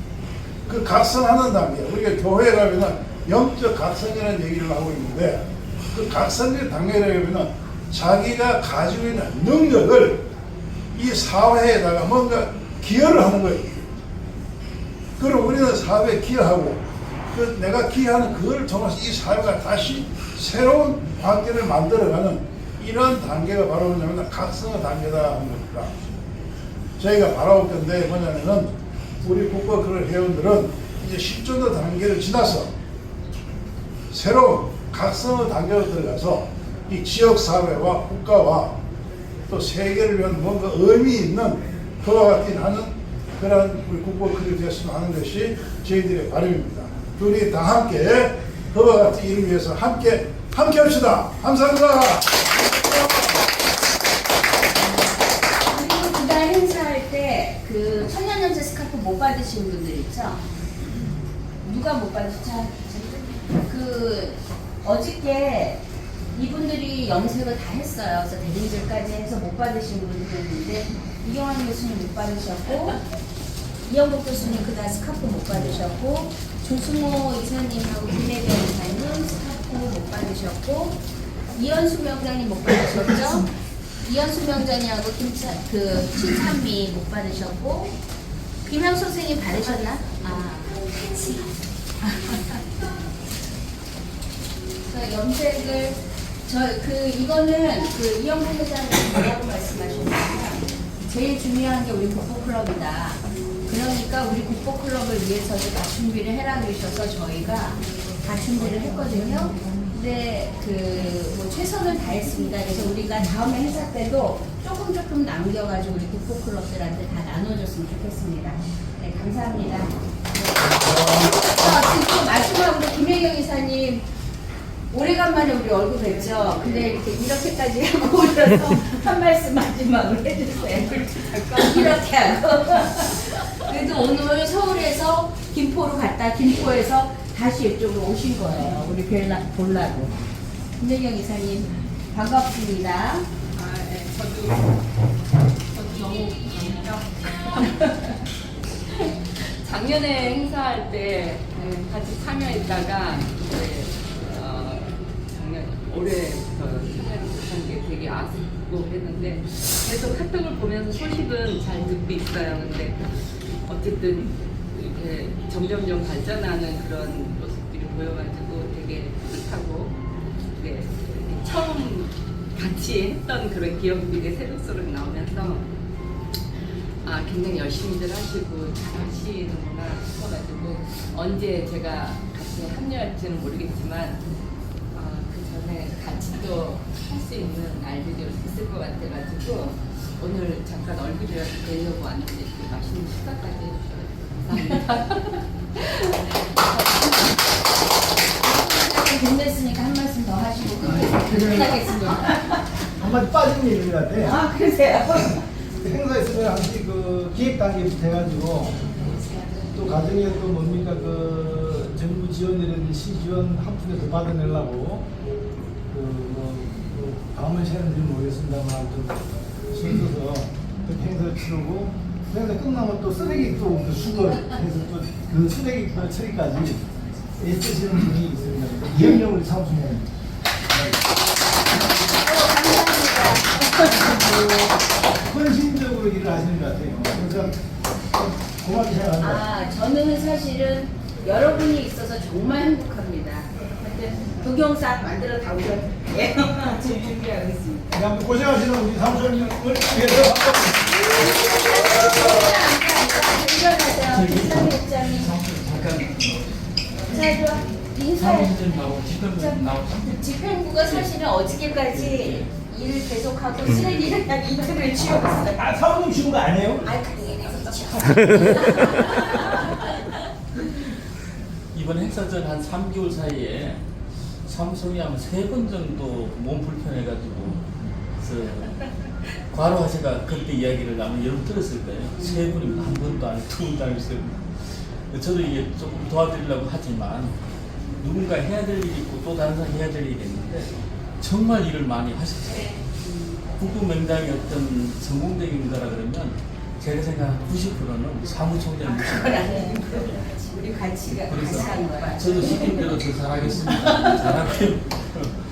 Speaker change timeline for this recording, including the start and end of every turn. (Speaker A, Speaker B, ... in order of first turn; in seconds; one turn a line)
Speaker A: 0.7-10.3
Speaker A: 10.9-13.9
Speaker A: 15.2-25.9
Speaker A: 27.0-32.7
Speaker A: 34.1-38.8
Speaker A: 39.5-52.4
Speaker B: 52.5-53.4
Speaker B: 55.6-60.4
Speaker B: 61.6-65.8
Speaker B: 66.3-73.0
Speaker B: 73.9-81.0
Speaker B: 81.5-83.5
Speaker B: 84.0-87.9
Speaker B: 88.6-91.5
Speaker B: 94.8-119.9
Speaker A: 120.7-121.3
Speaker B: 121.1-124.0
Speaker B: 124.9-140.1
Speaker C: 131.1-131.9
Speaker B: 140.8-143.3
Speaker C: 143.6-144.6
Speaker C: 145.8-146.9
Speaker C: 147.4-148.1
Speaker C: 149.5-169.9
Speaker C: 170.6-175.7
Speaker C: 177.0-184.2
Speaker C: 184.9-196.8
Speaker B: 198.4-202.6
Speaker D: 201.0-202.2
Speaker D: 203.0-204.4
Speaker B: 204.2-205.4
Speaker D: 205.8-208.9
Speaker B: 209.1-209.4
Speaker D: 209.7-215.1
Speaker D: 215.9-230.1
Speaker D: 230.7-231.0
Speaker B: 231.7-234.6
Speaker D: 235.2-237.6
Speaker D: 238.1-239.4
Speaker B: 239.2-247.9
Speaker D: 247.9-251.2
Speaker B: 251.0-255.3
Speaker D: 252.0-252.5
Speaker E: 254.1-256.5
Speaker B: 257.1-258.5
Speaker E: 258.1-260.1
Speaker B: 259.4-265.6
Speaker E: 260.8-262.5
Speaker D: 265.6-266.9
Speaker B: 266.8-269.6
Speaker D: 268.0-268.9
Speaker E: 271.7-273.8
Speaker E: 274.4-278.8
Speaker E: 279.5-287.3
Speaker E: 288.0-292.8
Speaker B: 293.0-293.4
Speaker E: 293.6-300.2
Speaker B: 298.8-303.0
Speaker E: 301.2-305.4
Speaker B: 303.8-304.2